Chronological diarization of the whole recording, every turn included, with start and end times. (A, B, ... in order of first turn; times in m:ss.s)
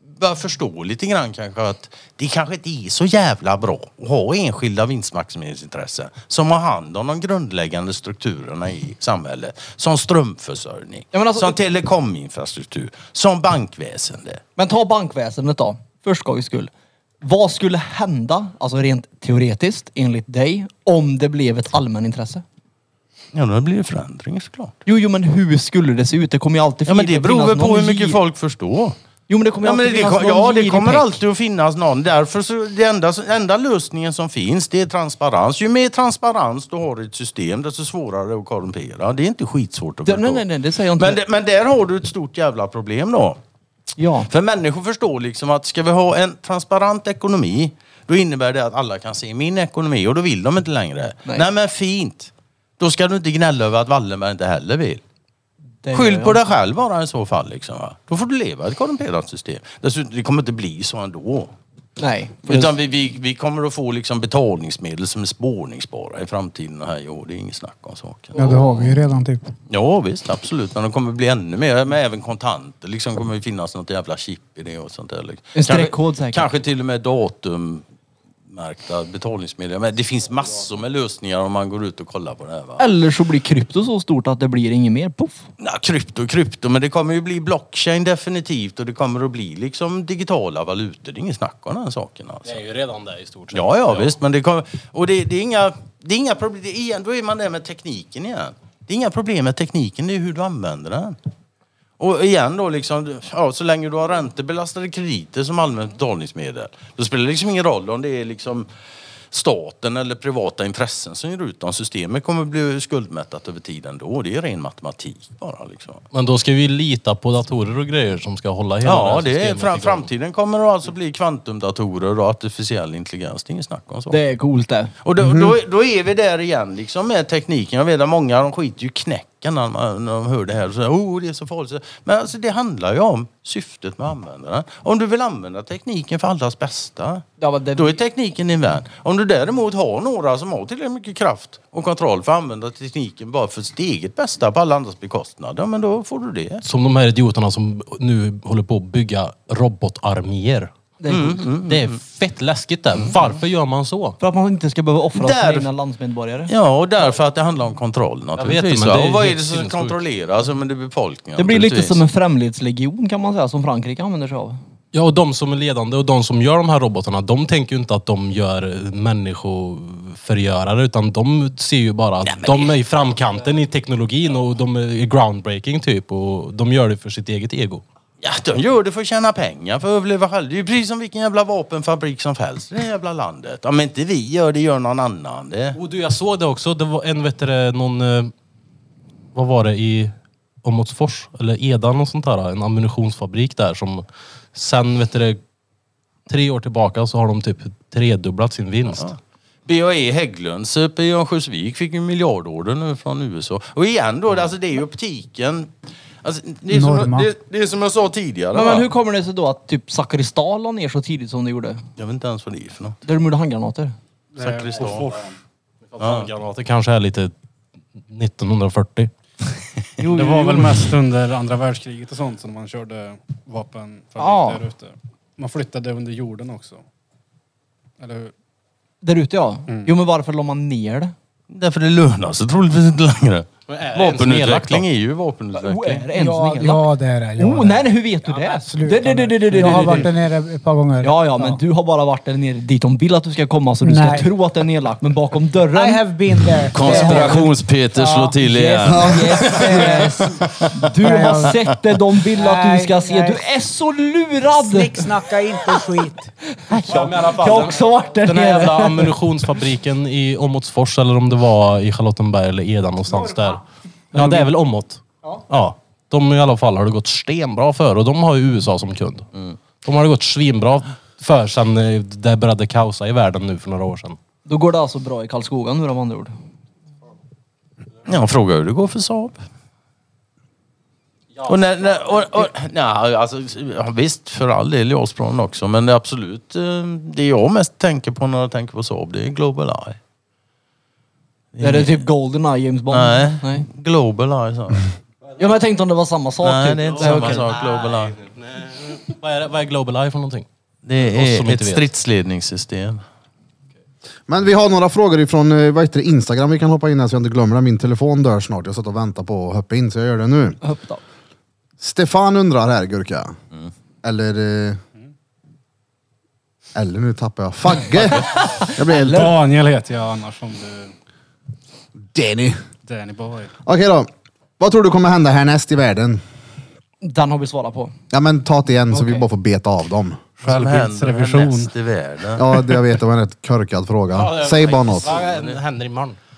0:00.2-0:14.4 A
0:11.1-0:11.6 B
0:14.6-0:16.7 B
0:17.2-0:22.4 B
0:23.3-0:24.8 A
0:24.9-0:28.2 B
0:26.9-0:29.0 A
0:29.3-0:31.2 B
0:29.6-0:40.4 A
0:40.1-0:41.2 B
0:41.0-0:43.4 A
0:44.0-0:44.3 B
0:44.3-0:55.0 A
0:55.8-0:56.4 B
0:55.9-1:01.5 A
1:02.0-1:02.7 B
1:02.5-1:08.4 A
1:08.4-1:09.0 B
1:08.4-1:09.5 C
1:09.7-1:17.8 A
1:15.6-1:16.5 B
1:18.5-1:22.9 A
1:22.8-1:25.4 B
1:25.6-1:32.6 A
1:32.4-1:34.2 D
1:33.5-1:41.2 A
1:42.0-1:48.7 A
1:49.3-1:56.0 A
1:56.1-2:00.1 D
1:58.8-2:04.2 A
2:04.1-2:04.9 B
2:05.0-2:17.2 A
2:05.2-2:05.6 E
2:17.4-2:18.0 B
2:17.8-2:26.6 A
2:26.6-2:30.7 D
2:31.0-2:31.4 B
2:31.1-2:32.0 A
2:31.7-2:34.2 D
2:34.2-2:36.5 B
2:35.2-2:35.7 A
2:36.5-2:42.0 A
2:38.4-2:40.0 D
2:41.4-2:44.6 B
2:44.9-2:57.8 D
2:52.3-2:52.7 A
2:58.2-3:05.8 A
3:05.7-3:08.3 D
3:09.3-3:15.4 D
3:16.3-3:19.1 D
3:18.9-3:25.7 A
3:26.2-3:28.9 A
3:26.7-3:27.3 C
3:28.5-3:31.8 B
3:32.0-3:33.0 A
3:33.1-3:34.0 B
3:34.4-3:35.3 F
3:34.4-3:35.1 A
3:36.0-3:37.3 D
3:36.0-3:36.3 A
3:38.0-3:39.1 D
3:40.0-3:40.9 B
3:40.1-3:46.8 F
3:44.2-3:44.6 B
3:48.0-3:48.3 F
3:49.0-3:51.1 B
3:51.5-3:56.1 A
3:53.7-3:54.9 D
3:55.5-3:56.9 B
3:56.1-4:01.6 C
3:57.4-4:00.1 B
3:59.6-4:00.1 F
4:01.0-4:06.0 B
4:03.8-4:04.3 C
4:05.7-4:11.6 C
4:06.6-4:07.5 B
4:06.7-4:10.7 A
4:08.8-4:15.1 B
4:08.9-4:09.3 E
4:12.4-4:13.5 C
4:14.6-4:16.3 C
4:16.6-4:19.2 B
4:16.9-4:23.6 D
4:24.1-4:29.3 D
4:24.1-4:24.5 B
4:29.8-4:34.2 D
4:34.5-4:36.3 B
4:38.0-4:39.4 A
4:41.4-4:42.2 D
4:41.5-4:50.0 A
4:51.5-4:52.0 A
4:51.6-4:53.7 B
4:52.9-4:54.9 A
4:55.4-4:57.5 B
4:56.4-4:58.2 A
4:57.0-4:57.6 D
4:58.4-5:00.5 D
5:00.9-5:03.0 A
5:01.0-5:01.8 D
5:04.3-5:10.6 E
5:10.6-5:11.0 B
5:11.8-5:13.4 E
5:14.0-5:14.8 E
5:16.8-5:19.3 E
5:18.1-5:19.3 B
5:19.0-5:20.9 F
5:22.1-5:22.6 E
5:22.8-5:23.5 F
5:23.6-5:24.1 E
5:24.6-5:26.2 E
5:27.0-5:27.9 B
5:28.1-5:30.2 E
5:28.9-5:29.3 B
5:30.4-5:32.5 A
5:30.4-5:31.7 F
5:32.4-5:35.1 E
5:34.1-5:36.2 D
5:35.0-5:35.6 A